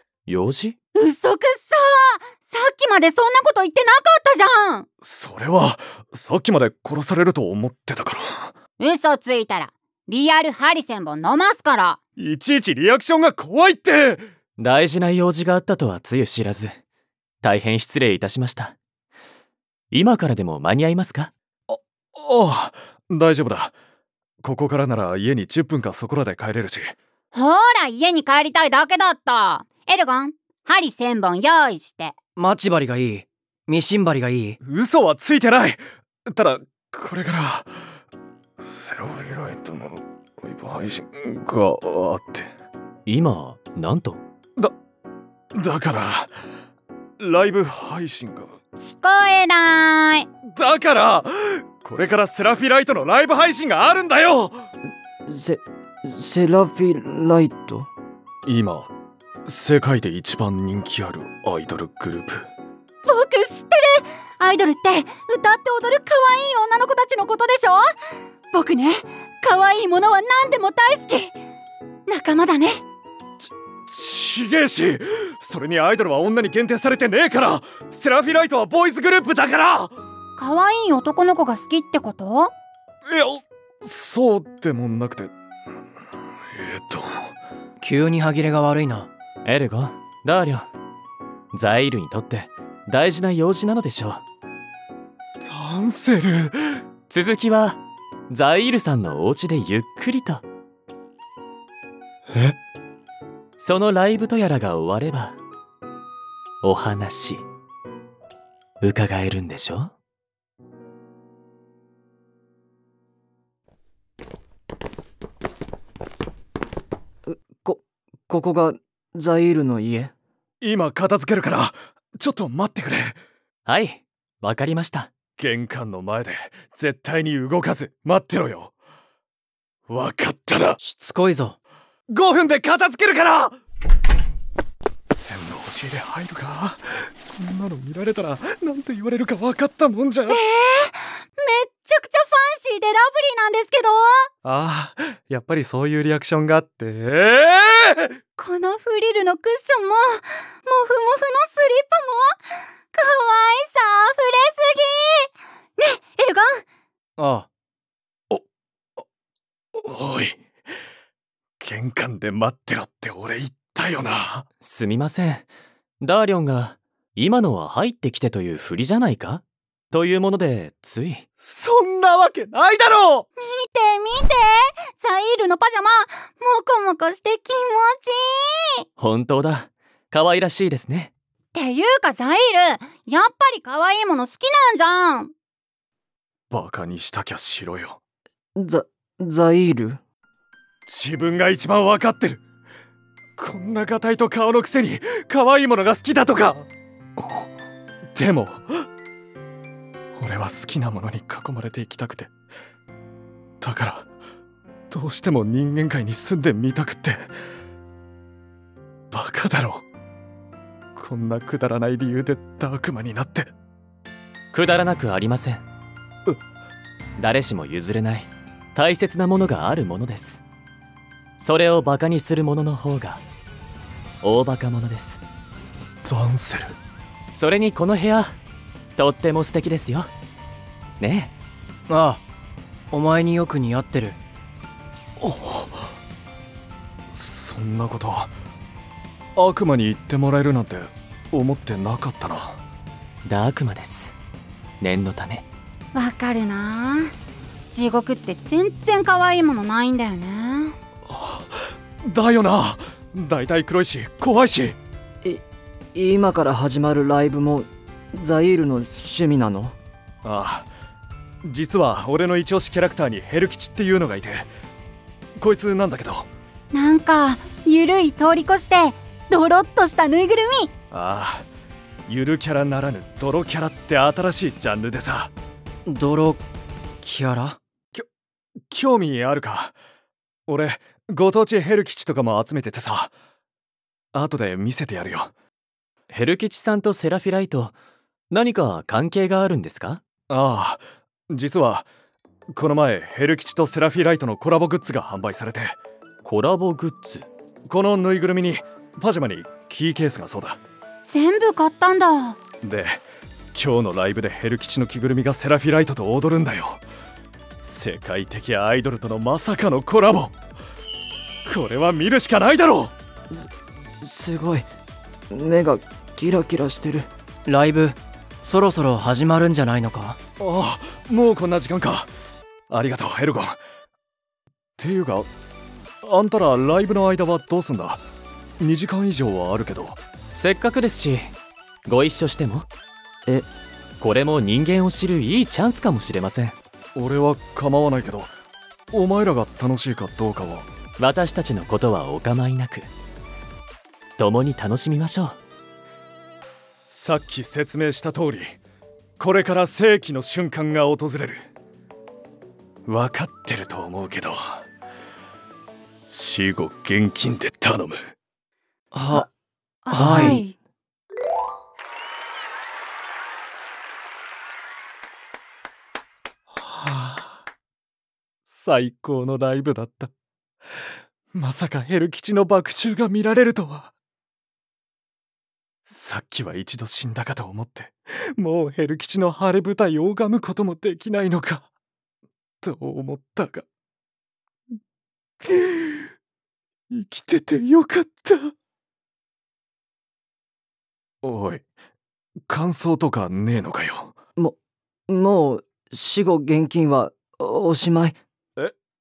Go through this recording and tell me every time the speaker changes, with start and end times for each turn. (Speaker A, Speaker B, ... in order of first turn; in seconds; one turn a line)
Speaker A: 0.3-0.8
Speaker B: 0.9-4.9
Speaker C: 5.0-8.5
Speaker B: 8.8-12.0
Speaker C: 12.2-14.2
Speaker A: 14.6-16.8
Speaker A: 17.4-18.8
Speaker A: 19.9-21.3
Speaker C: 21.7-23.7
Speaker C: 24.4-27.0
Speaker B: 27.3-32.1
Speaker D: 32.4-34.6
Speaker C: 34.6-37.7
Speaker C: 38.6-42.5
Speaker A: 43.1-44.2
Speaker C: 45.5-46.3
Speaker C: 47.2-48.5
Speaker B: 48.8-50.3
Speaker C: 50.5-54.6
Speaker E: 55.3-57.9
Speaker C: 58.5-58.9
Speaker C: 59.5-62.5
Speaker B: 63.1-67.9
Speaker B: 68.5-71.4
Speaker B: 72.1-72.8
Speaker C: 73.9-79.9
Speaker B: 80.4-82.5
Speaker C: 83.1-85.3
Speaker C: 86.5-87.3
Speaker D: 87.8-89.1
Speaker A: 89.5-90.7
Speaker A: 91.5-94.2
Speaker C: 95.4-96.8
Speaker A: 97.1-100.4
Speaker A: 103.6-105.4
Speaker A: 106.6-107.4
Speaker A: 108.8-109.9
Speaker E: 117.3-120.1
Speaker C: 120.6-123.2
Speaker A: 123.7-125.1
Speaker C: 125.4-128.7
Speaker C: 129.9-130.8
Speaker D: 130.8-131.6
Speaker C: 132.1-133.6
Speaker C: 135.1-140.4
Speaker B: 140.3-144.3
Speaker C: 144.4-148.1
Speaker B: 148.4-156.6
Speaker D: 157.2-157.5
Speaker C: 159.8-160.4
Speaker C: 161.6-164.5
Speaker A: 164.6-165.5
Speaker A: 166.0-171.2
Speaker C: 171.4-173.3
Speaker B: 173.4-178.8
Speaker A: 179.0-181.1
Speaker B: 181.5-185.3
Speaker C: 186.5-188.0
Speaker E: 188.6-190.0
Speaker C: 190.9-192.4
Speaker C: 193.4-196.7
Speaker C: 198.2-198.9
Speaker C: 200.2-202.3
Speaker C: 203.6-204.1
Speaker C: 204.9-207.3
Speaker C: 209.1-209.8
Speaker C: 210.9-213.5
Speaker A: 214.5-215.6
Speaker A: 217.2-220.4
Speaker A: 221.4-223.2
Speaker A: 224.2-225.2
Speaker C: 226.1-226.8
Speaker A: 227.3-228.4
Speaker A: 229.0-230.1
Speaker A: 231.0-231.3
Speaker D: 231.9-232.2
Speaker D: 232.9-234.2
Speaker C: 235.2-235.9
Speaker C: 237.1-238.3
Speaker C: 239.4-242.6
Speaker A: 243.2-244.2
Speaker A: 244.8-245.5
Speaker B: 245.9-247.1
Speaker B: 247.7-250.8
Speaker C: 251.1-254.8
Speaker E: 255.9-259.8
Speaker C: 260.2-260.7
Speaker C: 261.4-264.5
Speaker C: 265.4-266.3
Speaker B: 266.7-270.7
Speaker C: 270.9-271.5
Speaker C: 272.1-275.3
Speaker D: 275.9-276.4
Speaker D: 277.0-277.6
Speaker C: 278.7-279.8
Speaker C: 280.5-283.1
Speaker C: 284.1-285.3
Speaker A: 286.1-287.8
Speaker A: 288.3-290.0
Speaker C: 290.3-291.9
Speaker C: 292.5-295.8
Speaker A: 296.2-297.3
Speaker C: 297.7-300.6
Speaker B: 301.1-302.4
Speaker C: 302.6-303.0
Speaker C: 303.5-306.8
Speaker C: 307.6-310.3
Speaker C: 311.4-312.9
Speaker E: 314.0-314.7
Speaker E: 315.3-317.1
Speaker D: 317.5-320.2
Speaker C: 320.4-322.1
Speaker C: 322.7-323.6
Speaker C: 324.8-325.3
Speaker C: 326.0-328.0
Speaker C: 328.6-330.0
Speaker A: 330.3-331.3
Speaker A: 331.9-332.7
Speaker A: 334.0-336.6
Speaker C: 336.9-338.3
Speaker C: 338.9-340.7
Speaker A: 341.0-342.9
Speaker A: 344.2-345.4
Speaker C: 346.9-348.6
Speaker C: 349.2-351.4
Speaker C: 352.9-354.6
Speaker C: 356.1-358.0
Speaker D: 358.9-359.3
Speaker B: 359.9-360.6
Speaker D: 359.9-360.4
Speaker E: 360.0-360.4
Speaker C: 366.5-367.4
Speaker C: 368.5-370.1
Speaker C: 371.3-373.9
Speaker C: 375.9-381.7
Speaker C: 382.6-383.6
Speaker C: 385.4-386.1
Speaker C: 386.9-388.5
Speaker C: 391.2-391.6
Speaker C: 392.5-394.2
Speaker E: 395.1-398.2